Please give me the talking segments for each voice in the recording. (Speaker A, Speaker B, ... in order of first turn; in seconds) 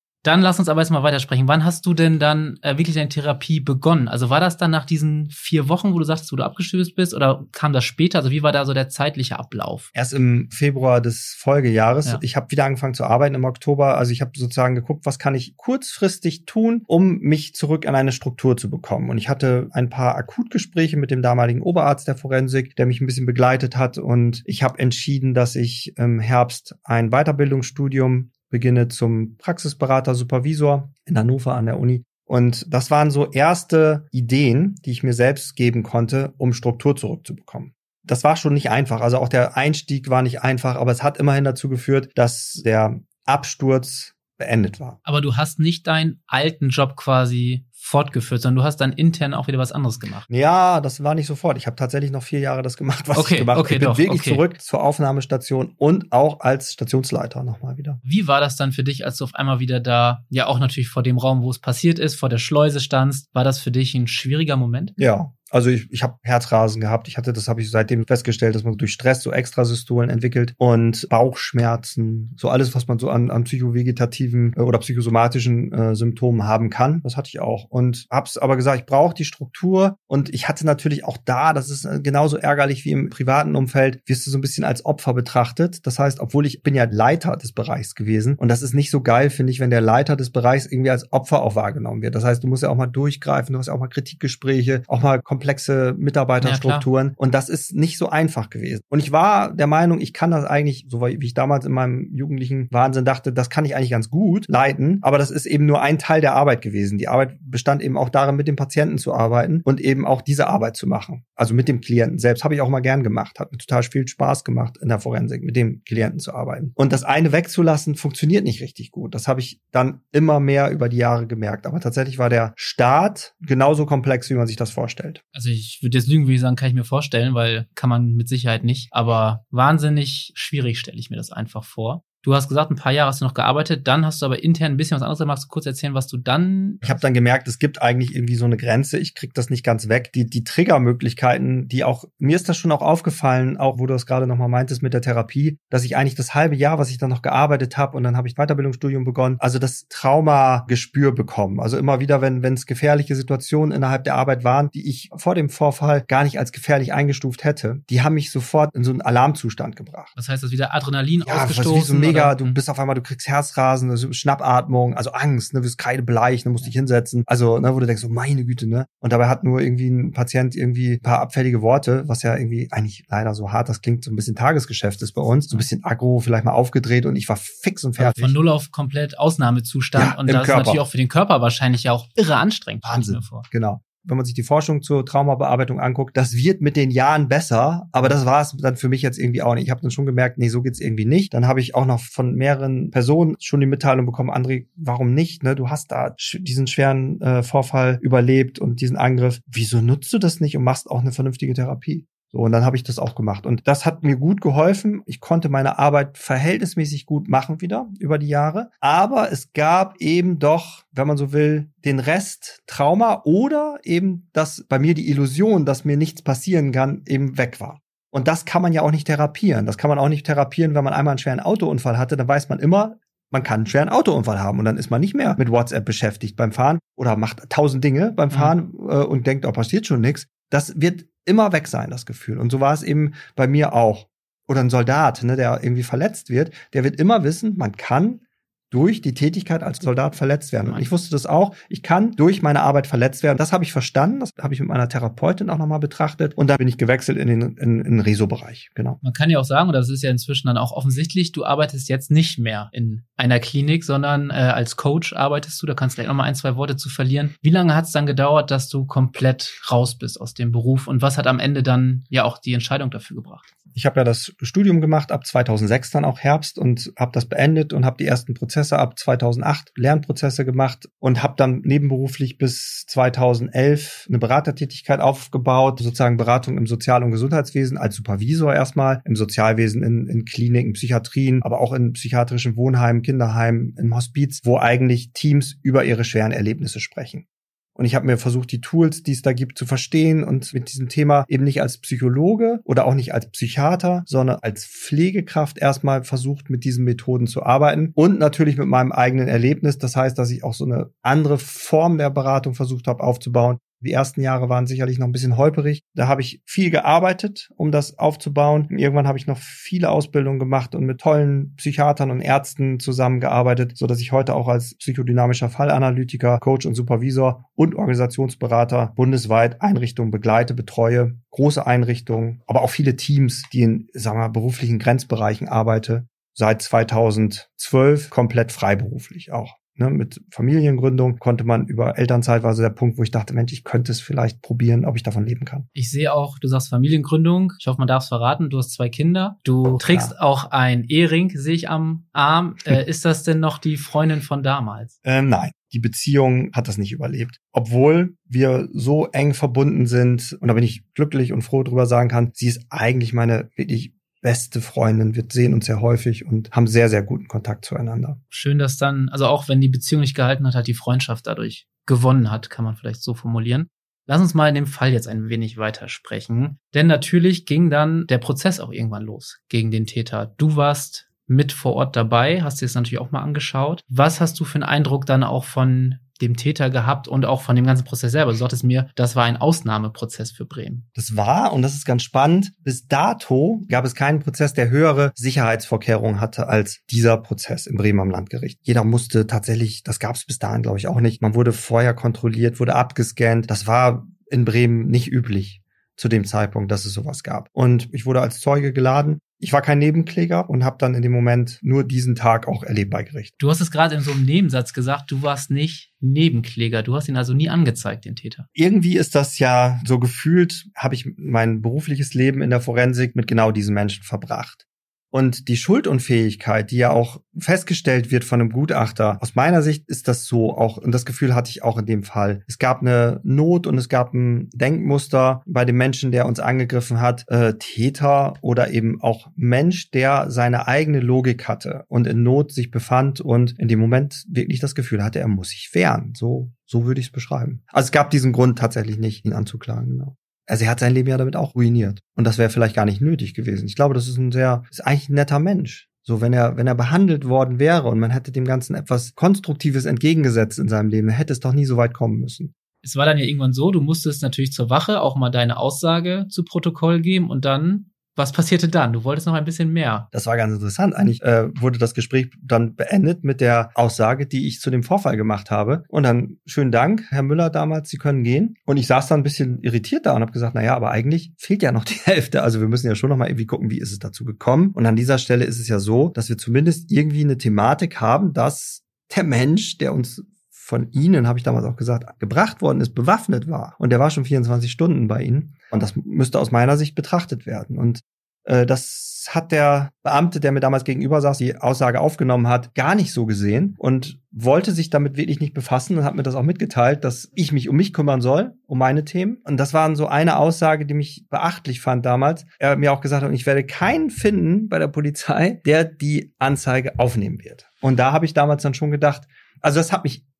Speaker A: 0.2-9.9, 45.0-50.3, 53.1-54.4, 58.0-65.0, 96.4-96.8, 125.3-137.0, 160.2-162.6, 178.0-183.4, 240.6-240.9, 249.0-263.4, 335.7-344.9, 358.3-380.9, 403.4-408.4, 452.8-460.1
Speaker B: 9.9-45.0, 50.3-58.0, 65.0-125.2, 136.8-160.1, 161.2-178.3, 179.9-180.8, 182.8-249.0, 263.7-287.2, 287.8-335.6, 339.9-340.1, 345.0-358.2, 380.9-403.3, 408.5-452.5, 460.1-510.2